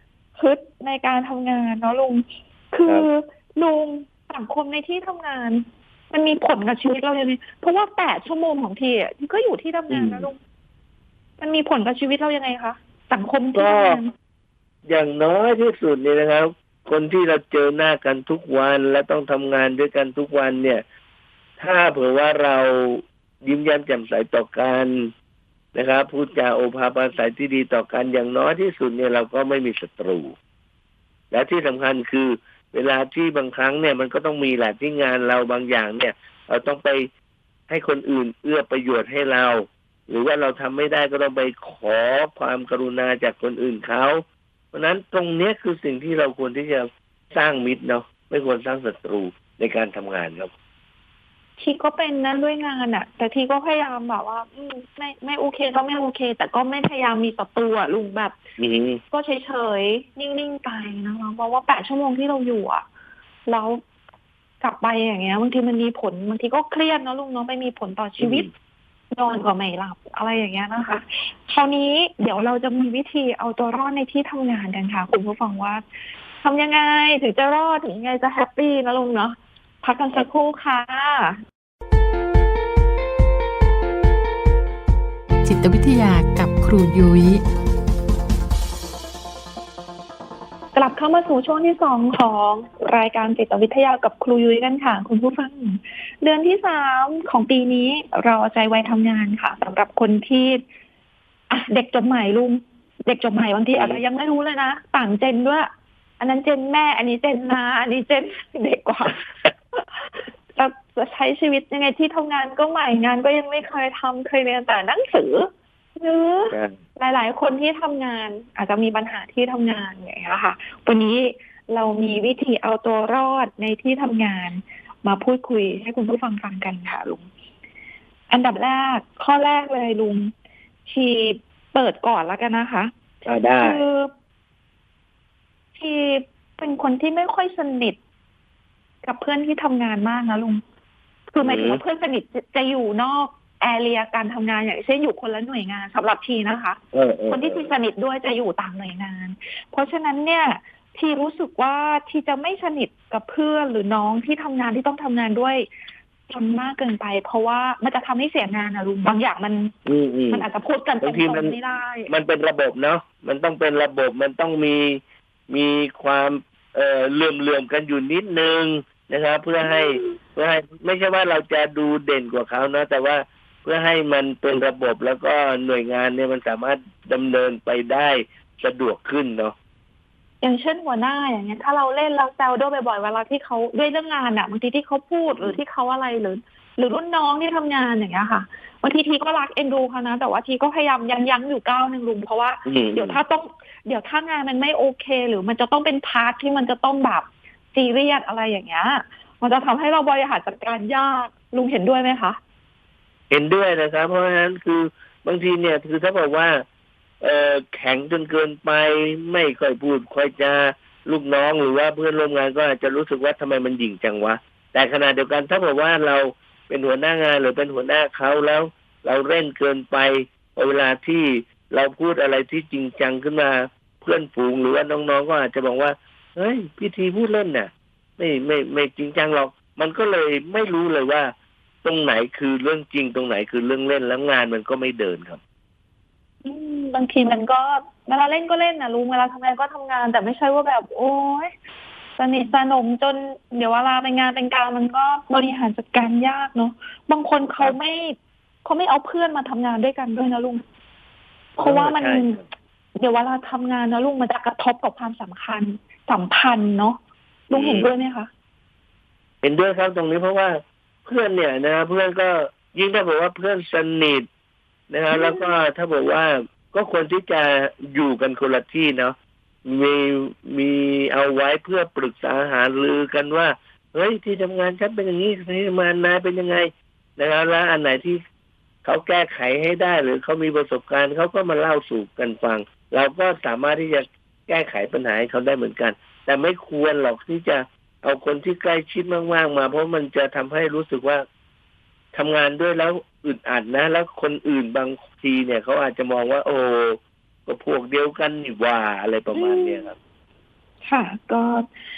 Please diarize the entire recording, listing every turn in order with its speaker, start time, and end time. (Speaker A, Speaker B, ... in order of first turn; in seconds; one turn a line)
Speaker A: 0.4-10.4
Speaker B: 9.9-10.3
Speaker A: 11.4-14.1
Speaker B: 13.6-14.0
Speaker B: 14.9-20.8
Speaker B: 21.6-25.1
Speaker B: 25.8-30.4
Speaker B: 31.3-37.1
Speaker B: 37.7-50.5
Speaker A: 51.6-58.4
Speaker B: 58.6-59.0
Speaker A: 59.1-62.8
Speaker A: 63.5-63.8
Speaker A: 64.6-68.5
Speaker B: 68.2-68.5
Speaker A: 69.1-75.8
Speaker A: 76.4-81.4
Speaker C: 85.4-87.4
Speaker A: 90.8-100.6
Speaker A: 101.5-109.2
Speaker A: 109.8-127.2
Speaker B: 116.5-116.8
Speaker A: 128.3-130.3
Speaker A: 130.9-132.9
Speaker B: 133.3-133.8
Speaker A: 133.6-134.1
Speaker A: 135.8-138.0
Speaker A: 139.0-140.6
Speaker A: 141.3-155.7
Speaker B: 141.4-141.8
Speaker B: 146.9-147.7
Speaker A: 156.3-159.7
Speaker B: 159.9-160.5
Speaker A: 160.3-162.1
Speaker B: 161.0-161.6
Speaker B: 162.1-179.6
Speaker A: 169.6-170.2
Speaker A: 180.4-202.4
Speaker B: 192.7-193.2
Speaker B: 203.3-206.6
Speaker B: 207.2-231.3
Speaker B: 231.8-235.4
Speaker A: 236.4-241.5
Speaker A: 242.2-250.6
Speaker A: 251.6-252.4
Speaker B: 251.6-252.3
Speaker A: 253.0-257.0
Speaker A: 257.5-258.3
Speaker B: 257.5-257.9
Speaker B: 259.4-264.3
Speaker B: 264.9-278.2
Speaker A: 265.1-265.5
Speaker B: 278.8-291.2
Speaker B: 292.1-299.9
Speaker A: 299.3-299.9
Speaker A: 300.8-301.7